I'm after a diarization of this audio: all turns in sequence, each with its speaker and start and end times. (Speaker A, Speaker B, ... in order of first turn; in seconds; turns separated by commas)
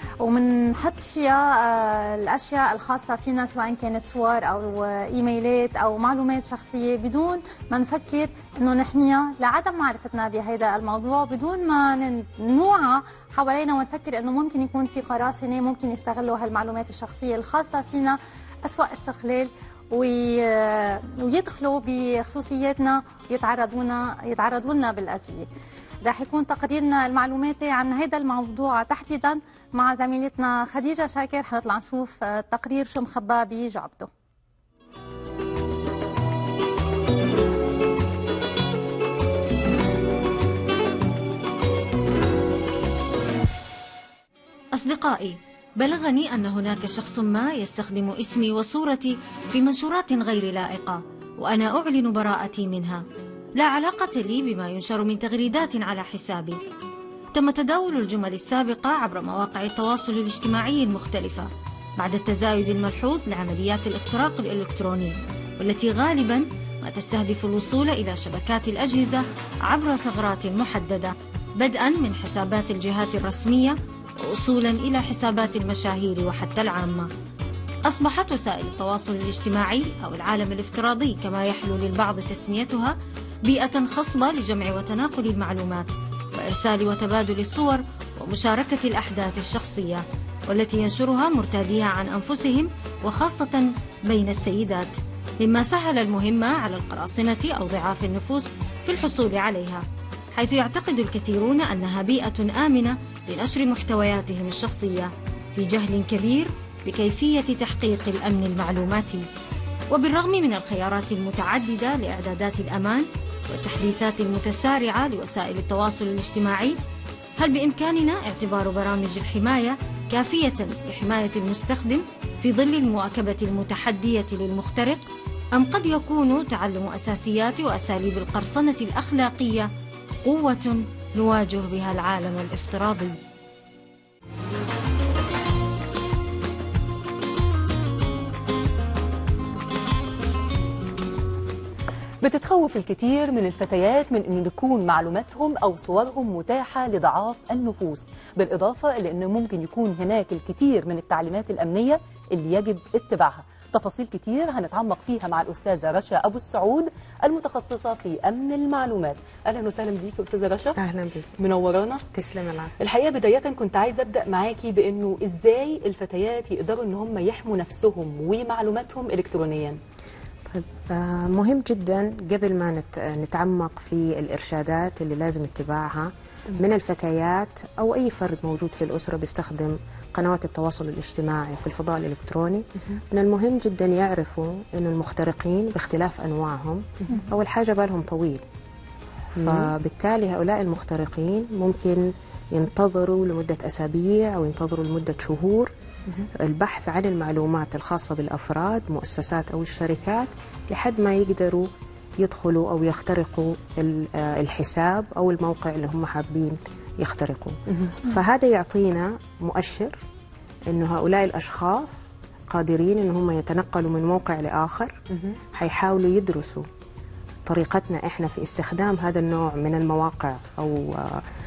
Speaker A: 0.2-25.5, Speaker A: 26.0-34.1, Speaker B: 44.8-53.0, Speaker B: 53.6-56.6, Speaker B: 57.3-77.1, Speaker B: 77.8-109.2, Speaker B: 109.9-116.8, Speaker B: 117.4-129.7, Speaker B: 130.2-133.1, Speaker C: 142.2-160.8, Speaker D: 160.7-161.3, Speaker C: 161.4-162.0, Speaker D: 162.1-162.7, Speaker C: 162.8-169.8, Speaker D: 170.5-188.4, Speaker D: 189.3-195.7, Speaker C: 189.4-189.7, Speaker D: 196.4-209.9, Speaker D: 210.7-214.9, Speaker D: 215.5-216.7, Speaker D: 217.4-221.2